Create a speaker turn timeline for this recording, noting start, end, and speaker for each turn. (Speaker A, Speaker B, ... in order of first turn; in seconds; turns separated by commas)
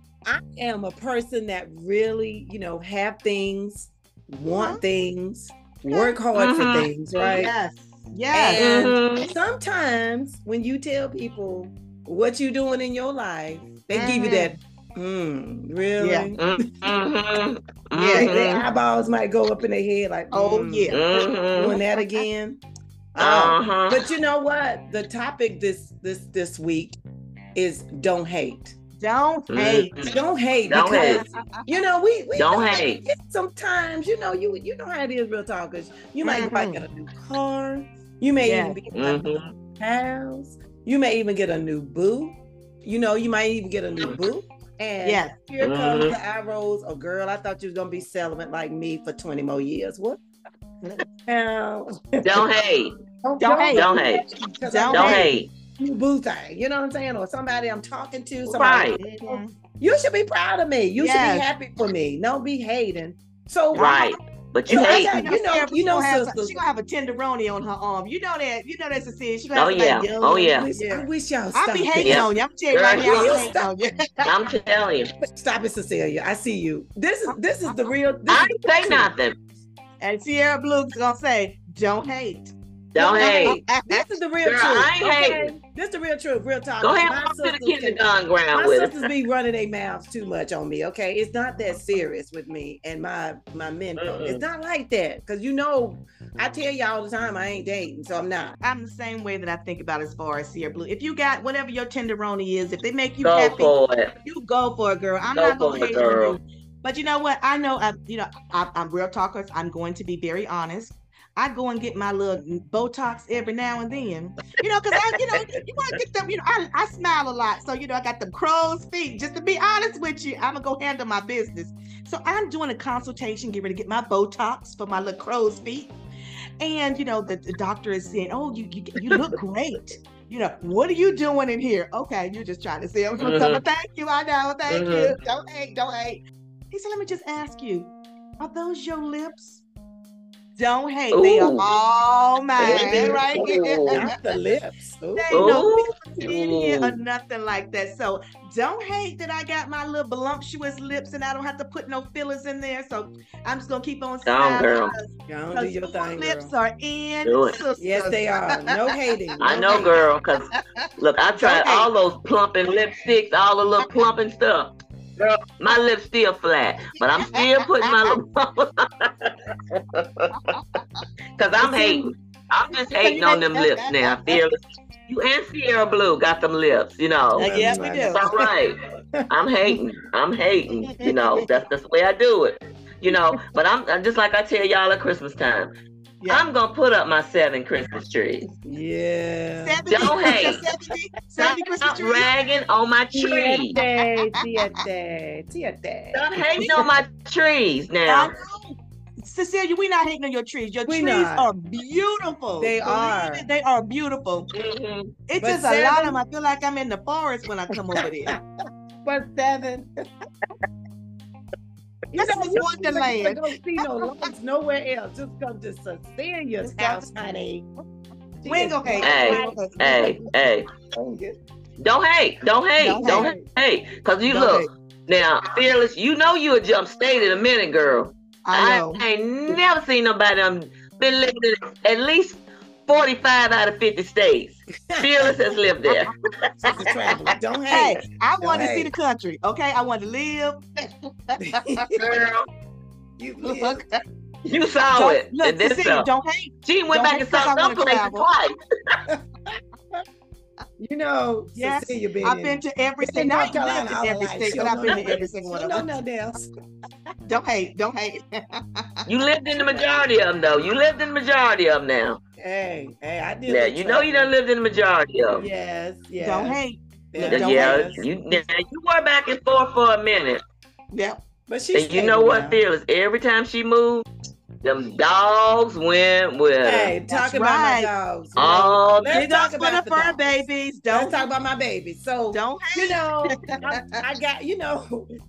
Speaker A: 0.2-7.5, Speaker B: 4.6-4.8, Speaker B: 5.9-6.2, Speaker C: 6.3-6.9, Speaker B: 7.2-8.9, Speaker C: 8.3-9.3, Speaker A: 8.5-17.0, Speaker B: 13.9-14.6, Speaker B: 16.0-16.3, Speaker C: 16.4-18.6, Speaker B: 17.9-18.3, Speaker A: 18.1-22.6, Speaker B: 20.3-21.3, Speaker C: 20.9-21.8, Speaker B: 21.9-22.2, Speaker A: 23.1-27.0, Speaker C: 23.2-24.1, Speaker A: 27.5-28.8, Speaker B: 29.0-30.0, Speaker C: 29.5-30.1, Speaker A: 30.0-39.3, Speaker C: 30.7-31.2, Speaker B: 30.8-31.6, Speaker C: 32.4-33.0, Speaker B: 36.2-36.8, Speaker B: 38.4-38.8, Speaker C: 38.9-39.5, Speaker A: 39.8-50.2, Speaker B: 45.0-45.4, Speaker C: 45.6-46.2, Speaker A: 51.2-52.5, Speaker C: 52.2-53.0, Speaker A: 53.2-63.9, Speaker B: 53.4-53.9, Speaker C: 53.7-54.2, Speaker B: 54.7-55.3, Speaker C: 54.9-55.5, Speaker C: 58.5-59.0, Speaker B: 59.0-59.5, Speaker B: 61.0-61.5, Speaker B: 63.7-64.2, Speaker C: 63.7-65.2, Speaker B: 64.7-74.4, Speaker A: 64.7-66.6, Speaker C: 69.5-70.7, Speaker A: 70.5-72.3, Speaker C: 72.0-73.5, Speaker A: 73.0-73.7, Speaker C: 74.2-75.1, Speaker A: 75.2-79.1, Speaker C: 78.3-79.4, Speaker B: 80.0-82.5, Speaker C: 82.9-83.6, Speaker A: 83.0-98.5, Speaker B: 83.1-84.1, Speaker C: 84.4-85.5, Speaker C: 86.8-89.0, Speaker C: 94.0-94.4, Speaker B: 98.6-125.9, Speaker C: 103.2-104.1, Speaker C: 105.3-106.4, Speaker B: 126.6-139.6, Speaker C: 133.2-133.6, Speaker C: 134.7-135.1, Speaker B: 140.6-144.1, Speaker C: 141.1-141.7, Speaker C: 142.6-144.0, Speaker A: 142.6-143.3, Speaker A: 143.9-145.6, Speaker B: 145.1-158.9, Speaker C: 145.3-147.0, Speaker C: 154.2-154.9, Speaker A: 155.3-156.5, Speaker C: 157.2-157.6, Speaker A: 157.8-160.0, Speaker C: 159.4-170.3, Speaker B: 159.6-159.9, Speaker B: 160.5-161.9, Speaker B: 167.2-168.2, Speaker B: 170.3-171.0, Speaker C: 171.4-185.7, Speaker A: 171.6-172.0, Speaker B: 172.7-174.4, Speaker B: 177.3-178.2, Speaker A: 177.3-178.5, Speaker A: 179.1-179.8, Speaker B: 181.0-181.5, Speaker C: 186.3-188.4, Speaker A: 188.6-190.6, Speaker B: 189.6-192.3, Speaker C: 189.9-190.6, Speaker C: 191.4-193.8, Speaker A: 193.1-196.9, Speaker B: 193.8-194.2, Speaker C: 196.1-198.3, Speaker B: 198.1-204.5, Speaker A: 200.9-201.5, Speaker A: 202.6-203.4, Speaker C: 204.5-205.1, Speaker B: 205.3-208.4, Speaker A: 205.4-206.2, Speaker A: 209.0-209.9, Speaker A: 212.1-217.7, Speaker B: 212.1-214.2, Speaker B: 216.6-217.2, Speaker A: 218.4-220.2, Speaker B: 218.4-220.2, Speaker C: 219.0-220.7, Speaker A: 220.9-221.4, Speaker C: 221.8-237.3, Speaker B: 222.8-223.3, Speaker A: 223.0-223.4, Speaker B: 224.3-224.7, Speaker B: 228.4-229.0, Speaker A: 234.9-235.3, Speaker A: 236.6-238.9, Speaker B: 237.7-241.8, Speaker A: 241.4-242.0, Speaker C: 241.9-242.5, Speaker A: 243.2-243.8, Speaker B: 243.4-244.0, Speaker C: 244.5-246.1, Speaker B: 244.9-248.2, Speaker C: 246.6-249.0, Speaker A: 249.1-249.6, Speaker A: 250.8-256.5, Speaker B: 251.5-255.9, Speaker B: 257.3-259.1, Speaker C: 259.1-262.2, Speaker A: 262.4-264.3, Speaker C: 263.5-265.4, Speaker A: 265.3-266.6, Speaker B: 266.2-268.0, Speaker A: 267.1-268.0, Speaker C: 267.2-270.4, Speaker B: 270.9-271.2, Speaker A: 271.5-272.6, Speaker C: 271.7-274.1, Speaker C: 274.6-276.9, Speaker A: 276.6-285.1, Speaker B: 277.1-277.9, Speaker C: 278.4-279.2, Speaker B: 279.1-281.2, Speaker B: 282.3-284.0